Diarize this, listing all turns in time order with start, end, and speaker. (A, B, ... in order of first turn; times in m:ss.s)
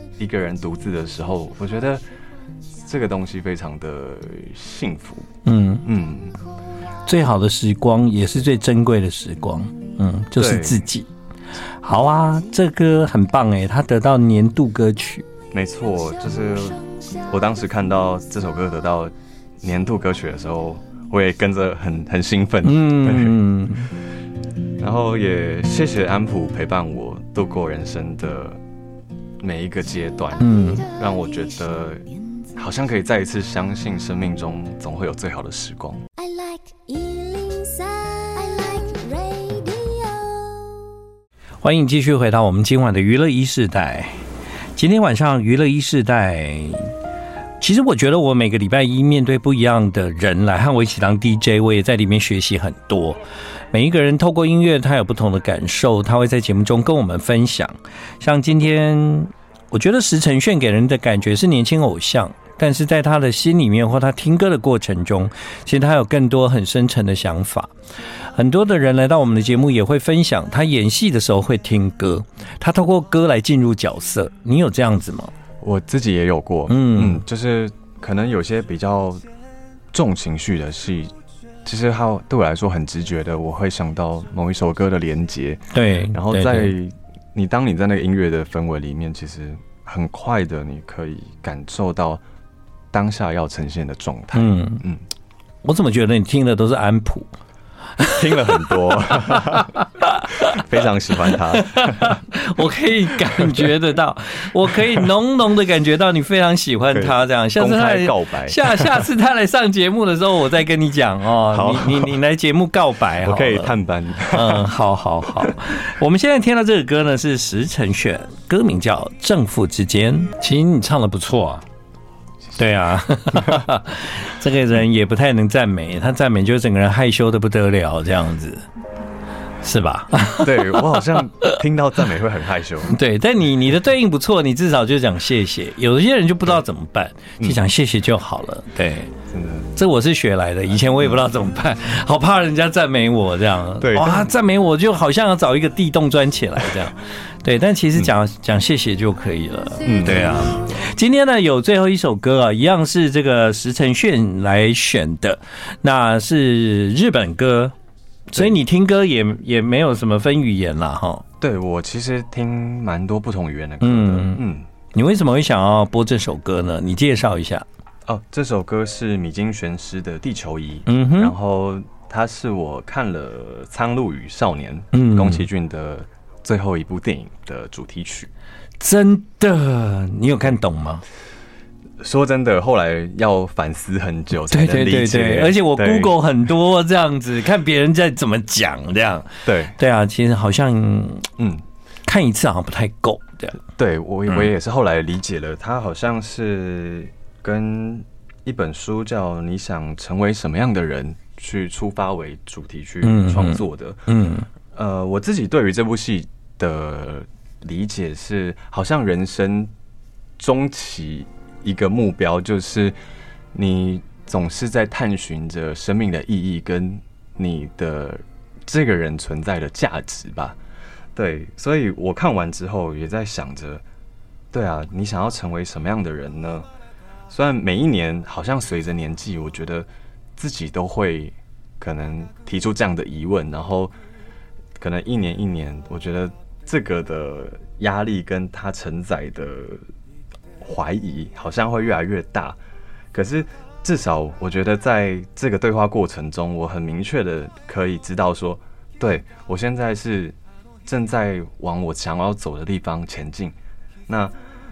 0:00.2-0:02.0 A
0:02.8-0:05.3 A
0:05.4-0:05.9 B
0:05.8-0:06.4 A
0:07.0-0:11.1 B
0:10.4-0:10.9 A
0:11.8-0:15.3 B
0:15.5-0:23.4 A
0:22.6-0:23.9 B
0:24.8-0:28.6 A
0:29.4-0:32.0 A
0:30.4-0:30.9 B
0:32.5-0:36.0 A
0:36.2-0:40.8 C
0:41.6-0:44.2 B
0:44.8-0:46.9 B
0:47.6-0:53.2 B
0:53.7-1:07.7 B
1:08.4-1:15.3 B
1:15.6-1:19.2 A
1:16.7-1:17.2 B
1:19.9-1:21.1 A
1:21.6-1:32.2 A
1:25.7-1:26.7 B
1:32.9-1:35.0 A
1:34.3-1:34.8 B
1:35.6-1:37.3 B
1:38.0-1:40.6 B
1:38.1-1:39.8 A
1:40.4-1:42.2 A
1:41.3-1:53.7 B
1:46.9-1:49.1 A
1:51.5-1:52.2 A
1:53.2-1:54.6 A
1:54.3-2:01.6 B
2:02.6-2:08.6 B
2:03.3-2:03.7 A
2:09.6-2:11.6 B
2:10.4-2:12.9 A
2:12.9-2:19.1 B
2:19.3-2:19.7 A
2:19.7-2:37.7 B
2:23.8-2:24.3 A
2:29.8-2:30.5 A
2:38.3-2:41.2 B
2:38.3-2:38.6 A
2:41.4-2:44.7 A
2:43.8-2:44.4 B
2:44.9-2:47.6 B
2:48.0-2:58.3 A
2:50.9-2:51.3 B
2:54.9-2:55.4 B
2:58.8-3:01.0 B
3:02.0-3:06.2 A
3:04.5-3:11.3 B
3:09.4-3:09.8 A
3:11.4-3:11.6 A
3:12.0-3:13.6 B
3:13.8-3:24.1 A
3:23.0-3:24.5 B
3:24.7-3:29.7 A
3:30.4-3:33.0 A
3:33.5-3:40.6 A
3:41.1-3:43.8 A
3:44.5-3:46.7 A
3:47.3-3:53.9 A
3:54.8-3:59.8 A
4:00.6-4:02.6 A
4:03.1-4:13.5 A
4:14.1-4:14.4 A